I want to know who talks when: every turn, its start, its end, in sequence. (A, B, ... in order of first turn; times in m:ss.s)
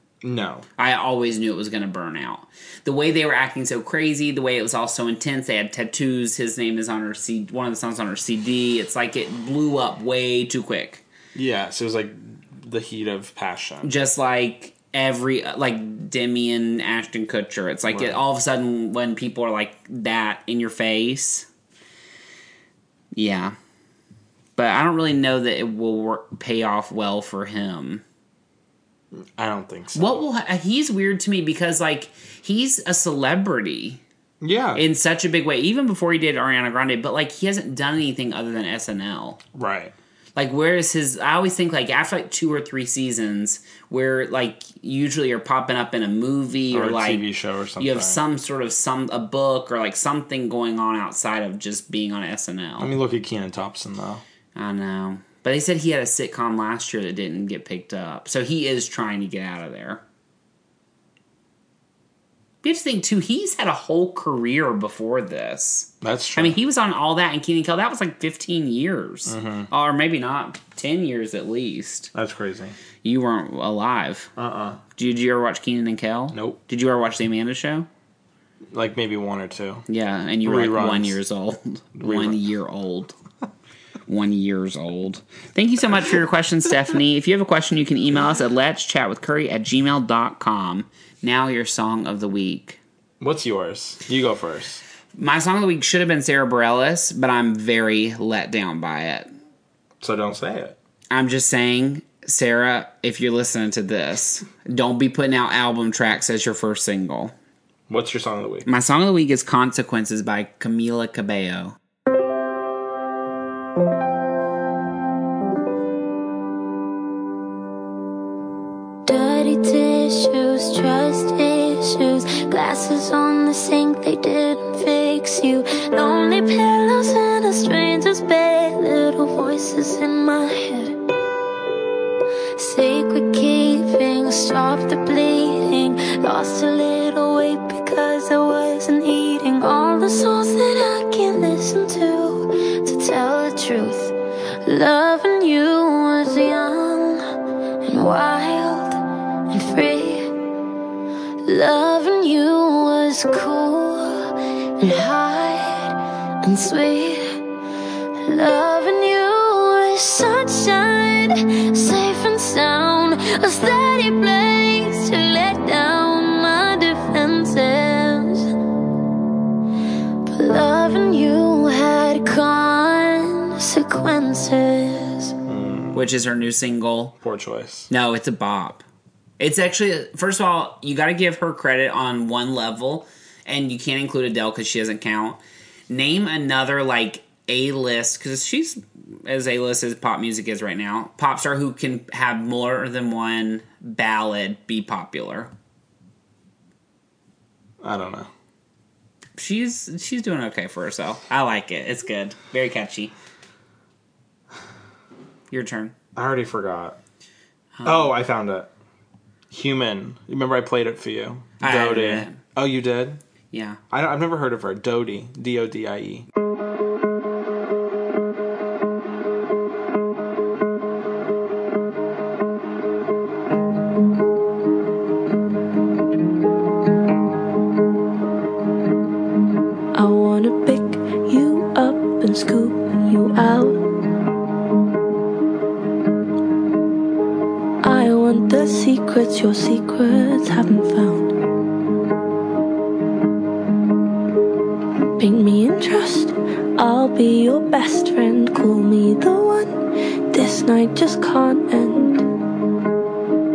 0:00.2-0:00.6 A
0:00.8-0:11.0 B
0:11.3-0:13.9 A
0:13.8-0:21.5 B
0:17.9-0:18.2 A
0:23.1-0:23.6 B
0:24.6-0:28.0 B
0:29.1-0:30.2 A
0:29.9-0:34.0 B
0:34.4-0:34.8 A
0:34.7-0:39.4 B
0:39.5-0:39.9 A
0:40.4-0:47.2 B
0:46.7-0:48.2 A
0:47.8-0:52.9 B
0:52.8-0:54.2 A
0:54.5-1:00.0 B
1:02.6-1:12.1 B
1:06.0-1:06.6 A
1:09.2-1:09.7 A
1:12.1-1:12.8 A
1:13.0-1:14.3 B
1:14.4-1:14.8 A
1:15.0-1:17.9 B
1:16.3-1:16.6 A
1:18.7-1:19.8 A
1:19.9-1:23.1 B
1:20.4-1:21.2 A
1:22.0-1:22.4 A
1:24.1-1:32.8 B
1:33.2-1:34.8 A
1:35.2-1:39.3 B
1:40.0-1:40.8 A
1:41.1-1:47.3 B
1:47.9-1:48.7 A
1:48.6-1:51.8 B
1:59.0-2:11.0 C
2:12.6-2:27.2 C
2:27.8-2:30.3 C
2:31.4-2:37.4 C
2:38.2-2:48.5 C
2:50.2-2:55.3 C
2:55.5-2:56.0 A
2:55.9-2:57.1 B
2:57.2-2:57.9 A
2:57.9-2:58.8 B
2:59.4-3:15.5 B
3:17.8-3:18.3 A
3:19.4-3:23.1 B
3:25.5-3:25.9 B
3:26.1-3:27.0 A
3:27.8-3:28.1 B
3:27.8-3:28.7 A
3:29.5-3:33.2 A
3:31.6-3:32.4 B
3:33.5-3:33.8 B
3:33.9-3:36.2 A
3:49.9-3:53.8 C
3:57.8-4:01.4 C
4:05.2-4:12.2 C